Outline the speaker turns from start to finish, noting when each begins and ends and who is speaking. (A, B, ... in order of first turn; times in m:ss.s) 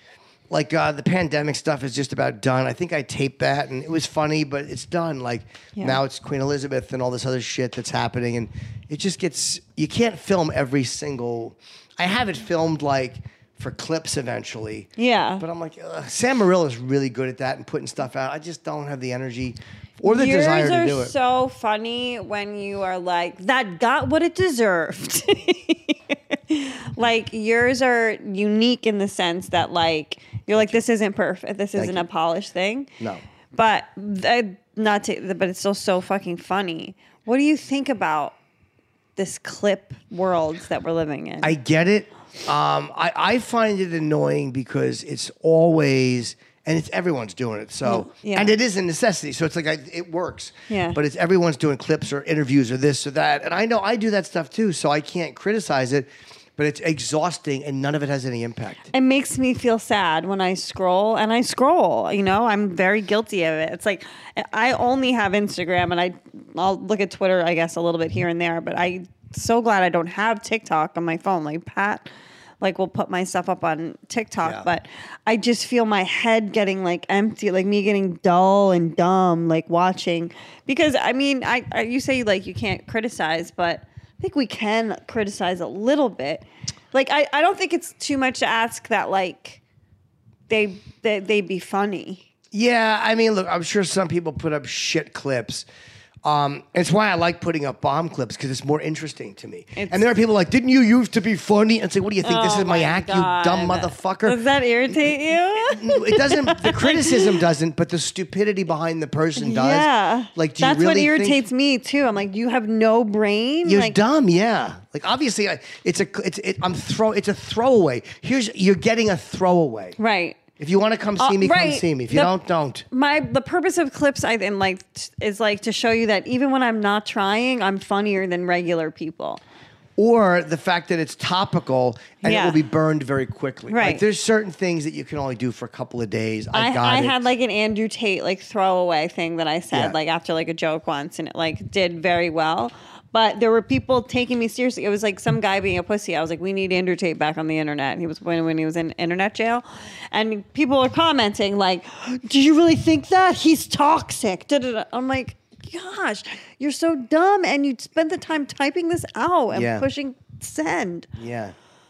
0:00.5-0:21.1 A
0:15.0-0:15.4 B
0:20.0-0:32.9 B
0:30.5-0:30.8 A
0:31.8-0:32.0 A
0:33.5-0:38.3 B
0:39.2-0:41.5 B
0:41.4-0:58.9 A
0:47.8-0:48.5 B
0:50.7-0:51.0 B
0:58.9-1:12.1 B
1:12.6-1:29.6 B
1:14.4-1:14.7 A
1:30.5-1:32.2 B
1:32.5-1:35.6 A
1:36.2-1:44.4 A
1:39.8-1:40.0 B
1:42.2-1:47.4 B
1:45.5-1:51.4 A
1:49.4-1:54.0 B
1:53.6-2:00.0 A
2:00.0-2:00.4 B
2:00.6-2:02.8 A
2:01.2-2:02.3 B
2:02.9-2:09.4 B
2:10.0-2:17.2 A
2:12.2-2:12.6 B
2:13.7-2:14.0 B
2:16.5-2:41.1 B
2:19.7-2:20.0 A
2:39.5-2:39.8 A
2:41.2-2:41.5 A